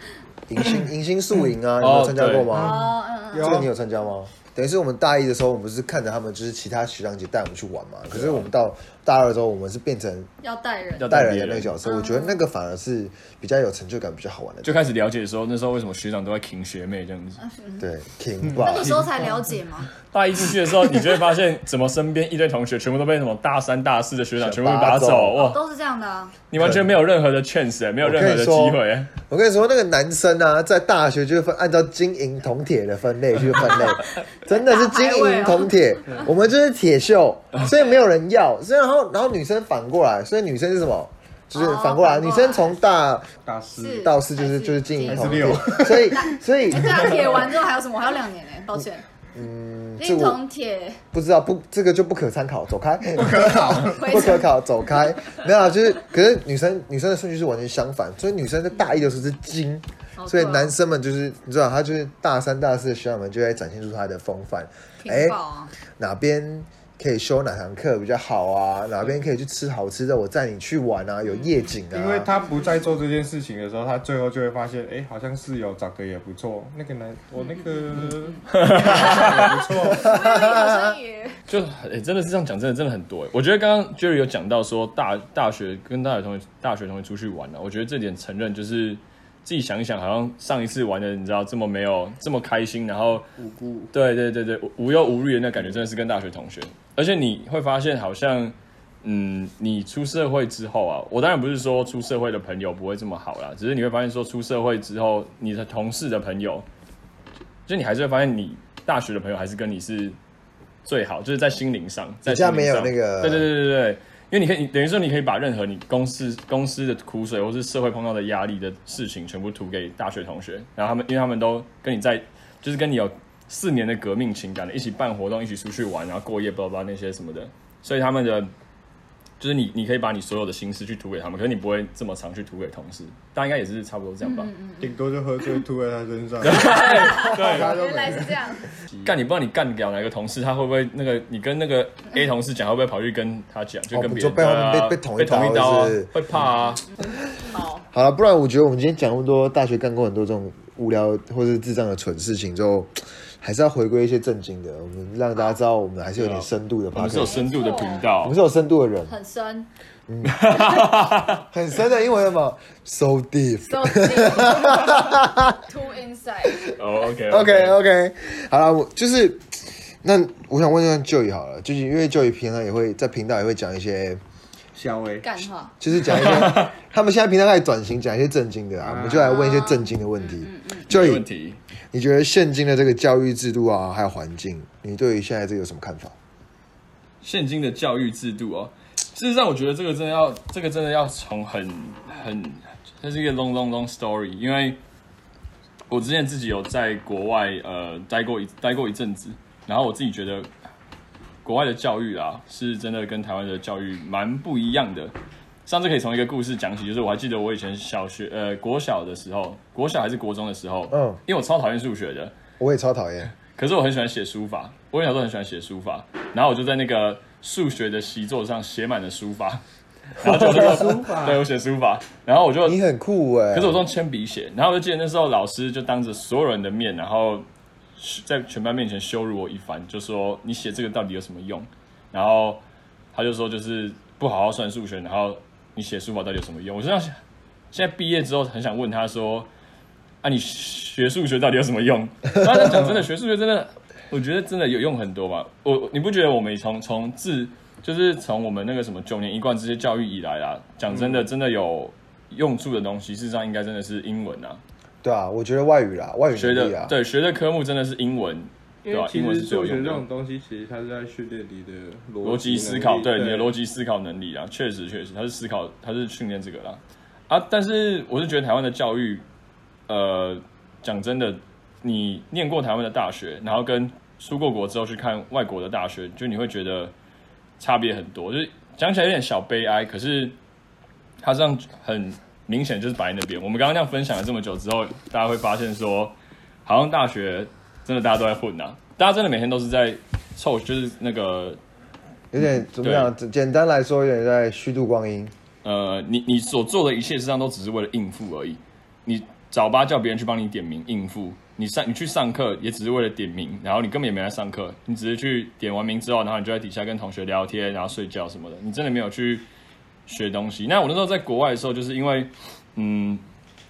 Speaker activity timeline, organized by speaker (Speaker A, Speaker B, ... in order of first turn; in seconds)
Speaker A: 0.5-10.3, 11.1-14.8, 17.8-19.0, 24.4-25.4, 26.5-26.9, 28.0-43.3, 44.0-47.3, 49.3-50.4, 51.1-65.4, 66.0-72.3, 80.1-81.0, 112.2-113.5, 143.9-146.1, 147.9-157.4, 158.2-159.1, 160.1-160.4, 161.5-165.6, 167.3-174.2, 175.8-181.3, 181.9-186.2, 210.9-211.2, 212.6-213.3, 222.7-223.8, 255.0-256.9, 292.3-295.3
Speaker B: 1.8-2.5, 8.1-8.5, 11.0-11.7, 14.6-17.4, 20.1-25.6, 26.5-29.1, 78.5-79.7, 81.5-93.3, 93.9-106.7, 107.7-110.2, 110.8-128.5, 129.4-134.5, 136.4-137.8, 139.0-146.8, 156.2-158.4, 160.2-161.4, 166.8-167.8, 176.3-176.7, 180.9-181.6, 187.2-194.8, 195.9-200.5, 201.4-205.1, 205.7-212.3, 213.4-219.6, 220.2-222.8, 223.5-227.4, 228.0-232.6, 233.1-237.2, 237.7-239.5, 240.2-254.6, 256.3-260.0, 262.2-269.2, 269.9-276.9, 277.6-280.4, 281.2-291.6, 292.8-293.1, 295.6-309.5, 310.1-313.2
Speaker C: 2.5-3.6, 10.4-11.2, 11.8-12.4, 17.4-17.9, 18.6-19.9, 25.4-26.3, 34.5-36.3, 37.6-38.0, 41.5-42.8, 43.8-49.0, 50.0-51.0, 53.9-54.5, 60.2-60.7, 65.0-65.7, 71.3-71.7, 77.4-78.4, 79.9-81.4, 134.2-135.0, 136.9-138.7, 147.4-147.9, 157.2-158.1, 159.1-159.7, 163.7-166.7, 175.2-175.7, 179.2-180.9
Speaker D: 2.5-3.7, 18.5-19.0, 43.5-44.1, 45.0-46.2, 53.1-54.2, 71.9-80.2, 93.4-93.9, 134.8-139.2, 174.8-175.4, 178.8-179.3, 220.3-221.4, 250.9-251.3, 258.9-263.5